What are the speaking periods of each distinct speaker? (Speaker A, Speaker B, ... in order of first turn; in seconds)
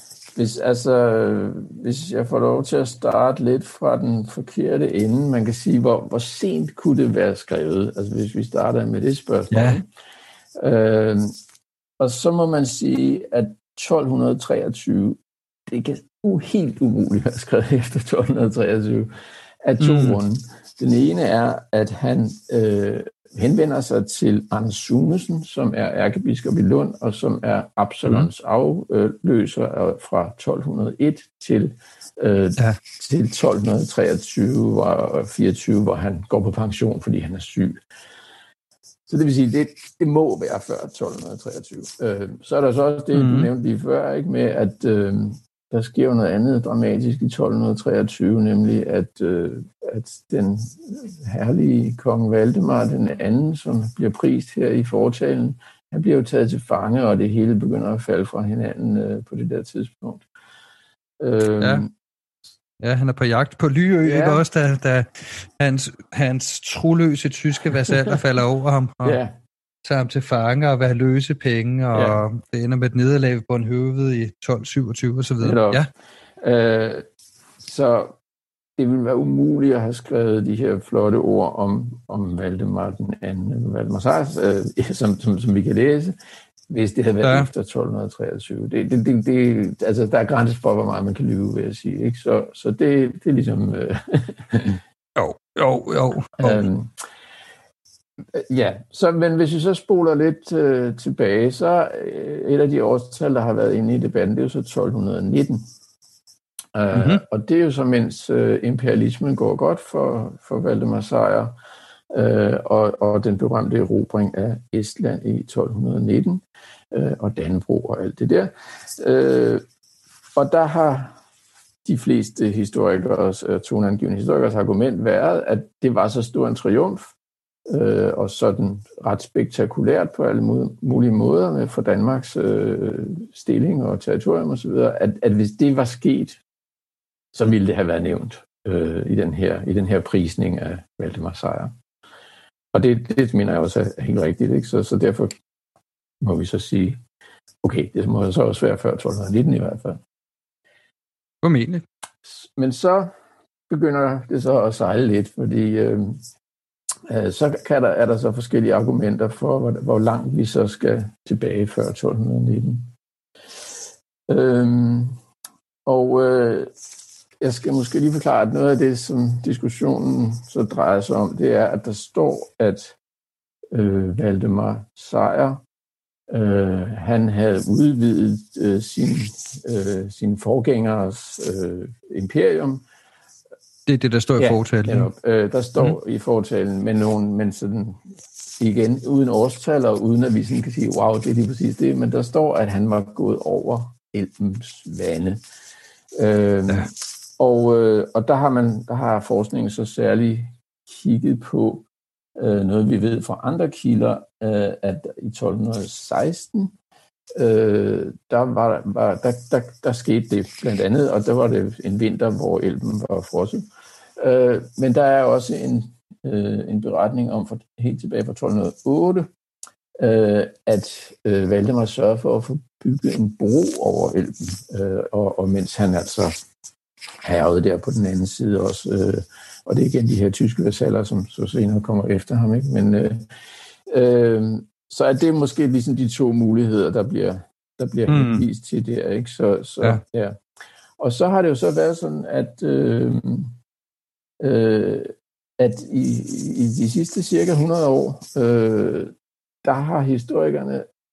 Speaker A: 0.3-9.9, 10.6-11.4, 12.0-19.1, 19.6-37.8, 39.1-60.2, 61.2-61.9, 64.0-64.4, 69.0-69.3, 71.9-72.2, 75.4-75.9, 76.4-77.0, 77.6-78.2, 78.8-86.2, 86.7-94.8, 96.4-96.9, 98.3-105.6, 106.7-111.6, 112.1-119.6, 120.3-121.2, 121.8-127.1, 127.7-136.4, 137.3-141.7, 142.7-145.3, 146.2-147.0, 147.6-150.0, 152.2-153.1, 153.7-156.2, 157.1-162.9, 164.3-165.2, 165.8-166.7, 167.4-173.0, 173.7-175.6, 176.3-182.8, 184.4-188.0, 188.6-195.4, 196.1-206.7, 207.3-213.7, 214.2-219.3, 220.0-226.4, 227.2-233.3, 233.9-240.4, 241.0-243.5, 244.4-250.9
Speaker B: 9.5-9.8, 19.8-20.2, 43.1-43.5, 61.6-61.9, 62.8-69.2, 69.8-75.9, 87.2-87.5, 95.2-96.6, 106.9-107.2, 151.4-151.8, 183.9-185.1, 238.1-238.4